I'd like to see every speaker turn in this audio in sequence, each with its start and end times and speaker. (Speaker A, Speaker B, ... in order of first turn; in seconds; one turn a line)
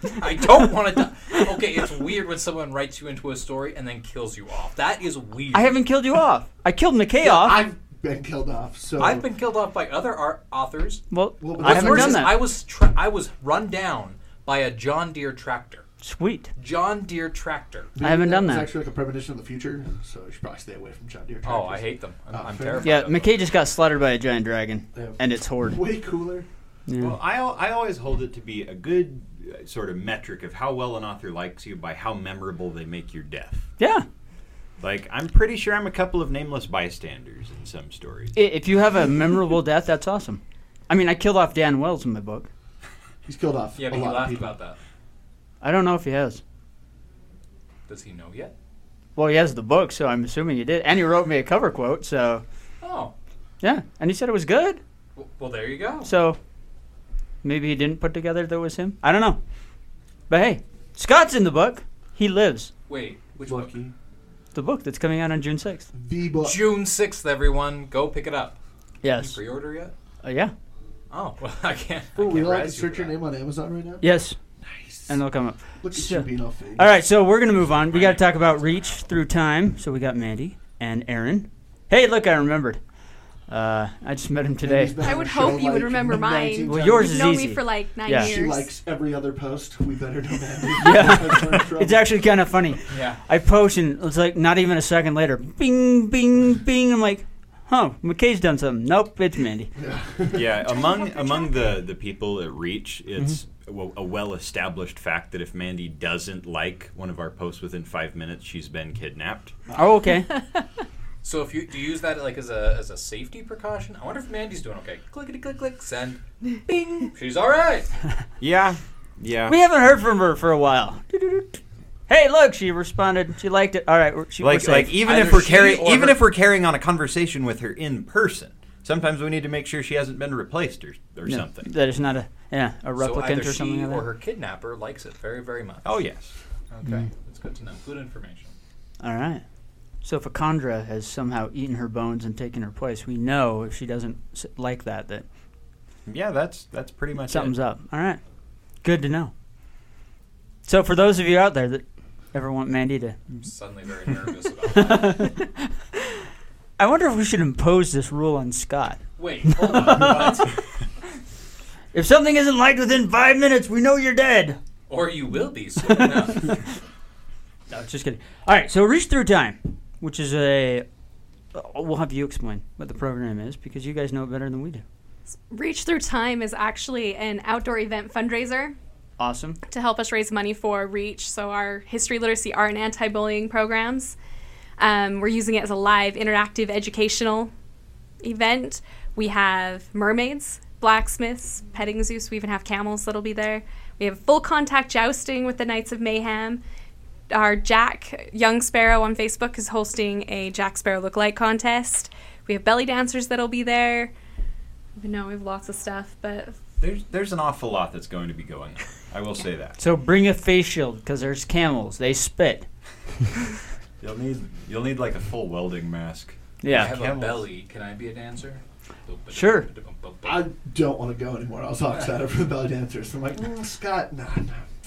Speaker A: 0.1-5.8
Speaker B: 5.5-7.6
Speaker C: 7.2-9.2
Speaker A: 9.0-11.0
Speaker B: 11.1-12.5
Speaker C: 11.4-12.4
Speaker A: 11.6-15.8
Speaker B: 16.0-16.5
Speaker A: 16.6-17.9
Speaker C: 17.9-23.0
Speaker B: 18.0-18.7
Speaker A: 21.4-23.4
Speaker B: 22.8-25.8
Speaker C: 24.9-26.5
Speaker B: 26.9-27.2
Speaker D: 27.0-33.7
Speaker B: 33.8-34.1
Speaker D: 34.8-38.4
Speaker B: 38.3-42.5
Speaker C: 43.3-44.5
Speaker A: 43.8-44.8
Speaker B: 45.6-46.4
Speaker A: 47.9-48.5
Speaker B: 49.2-52.4
Speaker A: 52.8-53.1
Speaker B: 53.6-54.8
Speaker A: 55.2-56.1
Speaker B: 56.0-56.4
Speaker B: 57.4-59.4
Speaker B: 60.3-62.7
Speaker A: 62.9-63.7
Speaker C: 63.4-63.9
Speaker B: 64.5-65.9
Speaker C: 66.0-66.6
Speaker A: 66.4-68.6
Speaker B: 69.0-69.4
Speaker A: 69.2-69.9
Speaker B: 70.2-70.5
Speaker A: 71.1-73.2
Speaker C: 72.2-74.1
Speaker B: 74.0-74.4
Speaker C: 74.6-75.2
Speaker B: 75.1-82.8
Speaker C: 75.8-77.0
Speaker A: 77.7-79.1
Speaker B: 83.5-85.0
Speaker C: 84.6-87.2
Speaker E: 85.0-88.7
Speaker B: 86.7-88.3
Speaker C: 88.1-92.1
Speaker B: 90.8-99.7
Speaker A: 92.9-93.2
Speaker C: 99.8-100.6
Speaker D: 100.3-109.5
Speaker E: 101.0-101.4
Speaker B: 109.7-110.3
Speaker A: 111.2-117.9
Speaker D: 118.4-119.6
Speaker B: 119.5-125.0
Speaker D: 124.4-131.7
Speaker A: 125.0-126.3
Speaker B: 131.3-134.1
Speaker A: 133.0-135.9
Speaker D: 135.8-136.3
Speaker A: 136.7-138.6
Speaker B: 139.0-139.4
Speaker B: 140.0-145.2
Speaker D: 146.1-147.6
Speaker B: 147.3-148.2
Speaker B: 148.8-149.3
Speaker B: 150.7-153.4
Speaker A: 153.4-155.3
Speaker B: 154.7-155.7
Speaker B: 156.8-160.4
Speaker A: 159.2-160.6
Speaker B: 161.9-164.6
Speaker A: 164.9-166.5
Speaker B: 167.7-170.9
Speaker B: 171.5-174.8
Speaker E: 175.5-178.8
Speaker B: 179.2-179.6
Speaker E: 179.7-184.2
Speaker E: 184.8-187.5
Speaker E: 188.2-196.6
Speaker E: 197.3-204.1
Speaker E: 205.0-206.6
Speaker D: 206.8-209.8
Speaker B: 209.8-212.7
Speaker D: 214.0-217.5
Speaker B: 216.6-216.9
Speaker A: 216.7-220.5
Speaker B: 219.3-219.7
Speaker C: 220.2-224.7